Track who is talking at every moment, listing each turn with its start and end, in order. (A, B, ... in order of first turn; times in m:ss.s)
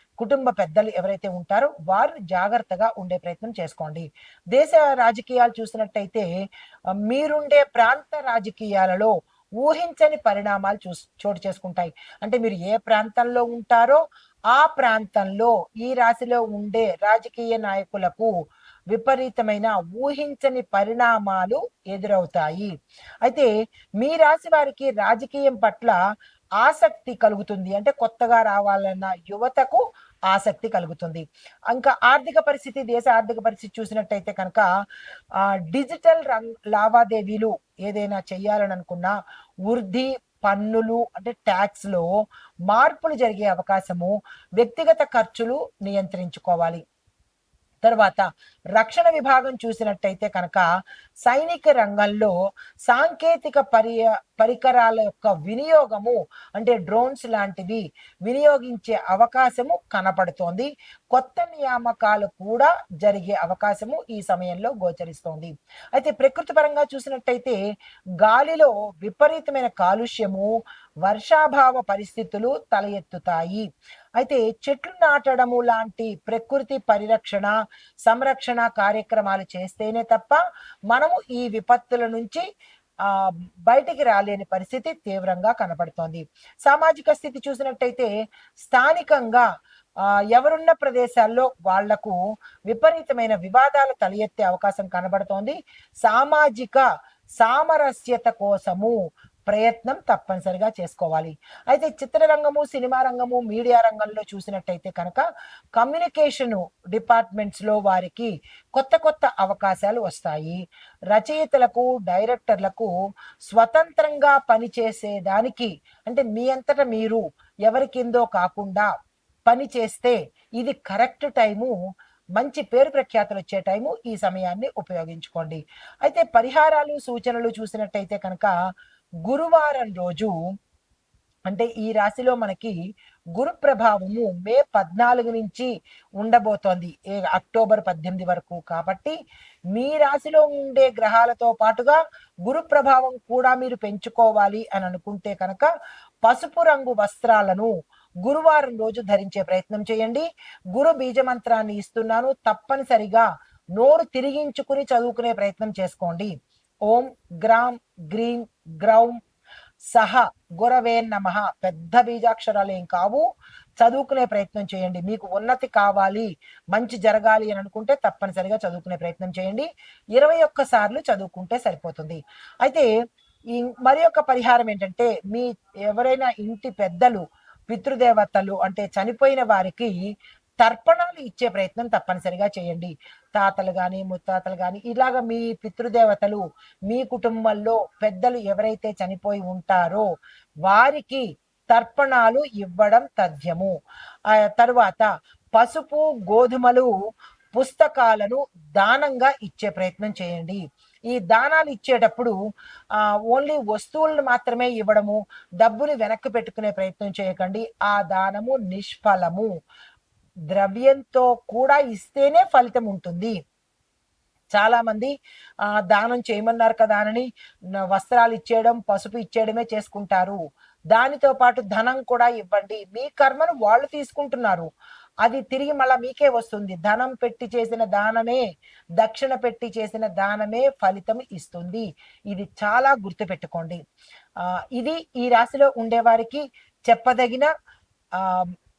0:00.2-0:06.3 A
0:07.0-0:14.0 A
0:14.5-0:18.3 A
0:18.9-0:22.7 A
0:23.2-0:26.0 A
0:26.6-0:34.7 A
0:35.4-0:39.2 A
0:39.7-0:42.1 A
0:42.7-0:46.8 A
0:47.8-0:50.7 A
0:51.2-0:52.3 A
0:52.9-1:07.6 A
1:08.2-1:10.5 A
1:11.0-1:13.7 A
1:14.2-1:22.4 A
1:23.0-1:29.5 A
1:30.0-1:36.9 A
1:37.4-1:45.2 A
1:45.8-1:50.6 A
1:51.1-1:52.9 A
1:53.5-1:58.9 A
1:59.5-2:01.7 A
2:02.4-2:08.5 A
2:09.2-2:10.3 A
2:11.5-2:12.8 A
2:13.4-2:19.2 A
2:19.7-2:25.7 A
2:26.2-2:27.7 A
2:28.2-2:36.3 A
2:36.9-2:39.2 A
2:39.9-2:43.2 A
2:43.8-2:52.9 A
2:53.6-3:00.0 A
3:00.6-3:10.0 A
3:10.7-3:13.7 A
3:14.3-3:16.9 A
3:17.6-3:22.3 A
3:23.0-3:29.5 A
3:30.5-3:33.4 A
3:34.5-3:35.1 A
3:35.7-3:40.4 A
3:40.9-3:44.7 A
3:45.2-3:48.4 A
3:49.0-3:53.8 A
3:54.4-3:57.5 A
3:58.2-3:58.5 A